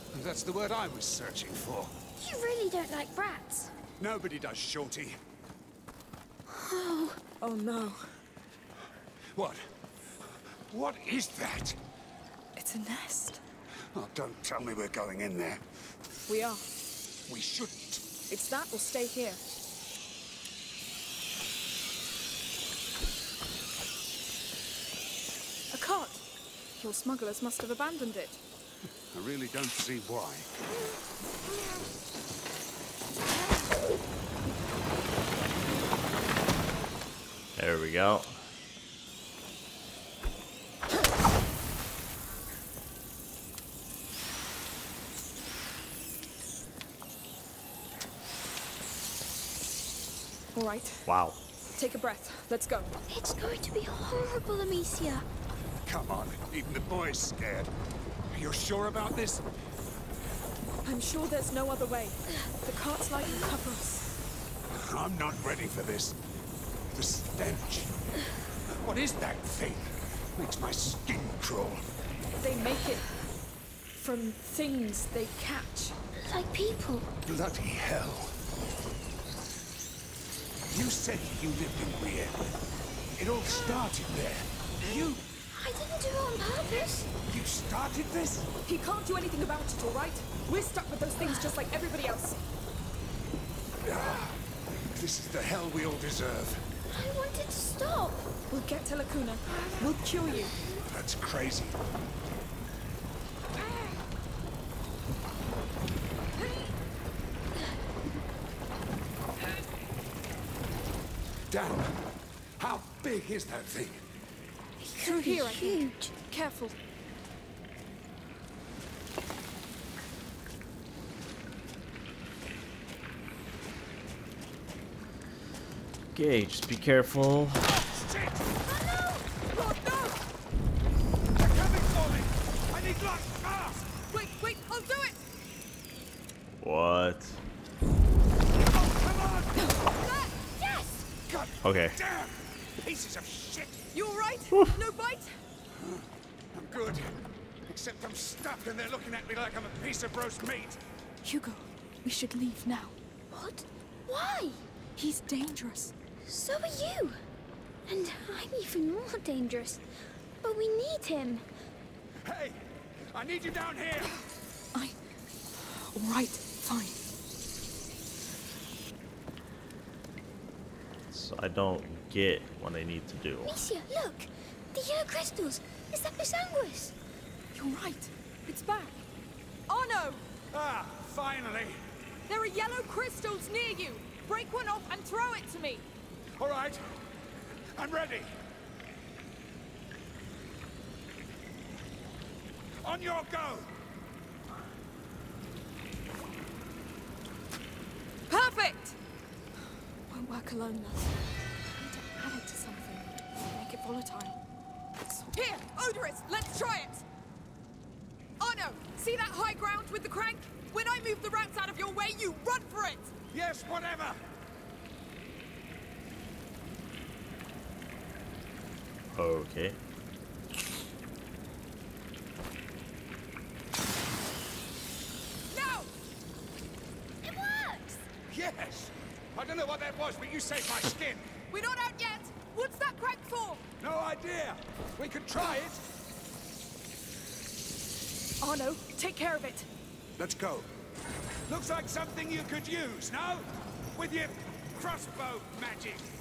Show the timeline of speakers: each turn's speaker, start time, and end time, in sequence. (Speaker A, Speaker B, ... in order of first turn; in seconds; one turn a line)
Speaker A: 0.1-1.9
Speaker B: 2.2-3.7
Speaker A: 4.0-5.2
Speaker B: 6.5-7.2
Speaker C: 7.4-8.1
Speaker A: 9.3-11.8
Speaker C: 12.6-13.4
Speaker A: 13.9-15.6
Speaker C: 16.3-16.6
Speaker A: 17.3-18.1
Speaker C: 18.3-19.4
Speaker C: 25.7-26.3
Speaker C: 26.8-28.4
Speaker A: 29.1-30.5
Speaker D: 37.6-38.4
Speaker C: 50.5-51.1
Speaker D: 51.1-51.4
Speaker C: 51.8-52.9
Speaker B: 53.1-55.2
Speaker A: 55.8-57.7
Speaker A: 58.3-59.5
Speaker C: 60.9-64.1
Speaker A: 64.7-66.2
Speaker A: 66.9-67.9
Speaker A: 68.7-71.8
Speaker C: 72.4-73.1
Speaker C: 73.9-76.0
Speaker B: 76.2-77.1
Speaker A: 77.2-78.4
Speaker A: 80.7-82.4
Speaker A: 83.2-84.5
Speaker C: 84.8-85.2
Speaker B: 84.8-87.1
Speaker A: 87.2-88.5
Speaker C: 88.7-92.5
Speaker A: 93.8-94.4
Speaker A: 94.9-96.7
Speaker B: 96.9-98.3
Speaker C: 98.5-100.6
Speaker A: 100.8-101.8
Speaker A: 111.5-112.0
Speaker A: 112.6-114.0
Speaker C: 114.8-116.8
Speaker B: 115.0-116.1
Speaker D: 126.1-127.8
Speaker A: 127.7-128.5
Speaker C: 128.7-130.2
Speaker B: 128.9-129.2
Speaker A: 131.3-134.0
Speaker C: 134.1-135.2
Speaker D: 136.6-137.4
Speaker A: 138.7-139.8
Speaker C: 139.6-140.5
Speaker A: 141.3-143.8
Speaker D: 141.6-142.0
Speaker C: 143.9-145.4
Speaker A: 145.8-147.2
Speaker A: 147.7-150.8
Speaker C: 151.2-153.0
Speaker B: 153.3-154.6
Speaker C: 155.0-155.9
Speaker B: 156.3-157.2
Speaker B: 157.9-159.8
Speaker B: 160.4-161.5
Speaker A: 162.2-162.6
Speaker A: 163.1-164.2
Speaker C: 165.5-167.0
Speaker D: 171.1-173.6
Speaker B: 173.4-176.9
Speaker C: 177.5-179.0
Speaker C: 179.7-180.2
Speaker A: 180.5-181.8
Speaker C: 182.3-185.8
Speaker A: 186.4-186.8
Speaker A: 187.8-188.3
Speaker A: 192.8-193.7
Speaker C: 198.3-199.0
Speaker C: 200.1-201.1
Speaker C: 201.7-204.4
Speaker C: 205.1-207.1
Speaker C: 208.4-213.1
Speaker A: 213.3-214.2
Speaker D: 219.2-219.8
Speaker C: 225.5-225.9
Speaker B: 227.2-228.1
Speaker A: 228.3-231.3
Speaker C: 231.5-233.6
Speaker A: 233.8-235.8
Speaker C: 238.4-239.7
Speaker A: 240.2-240.7
Speaker A: 241.5-246.1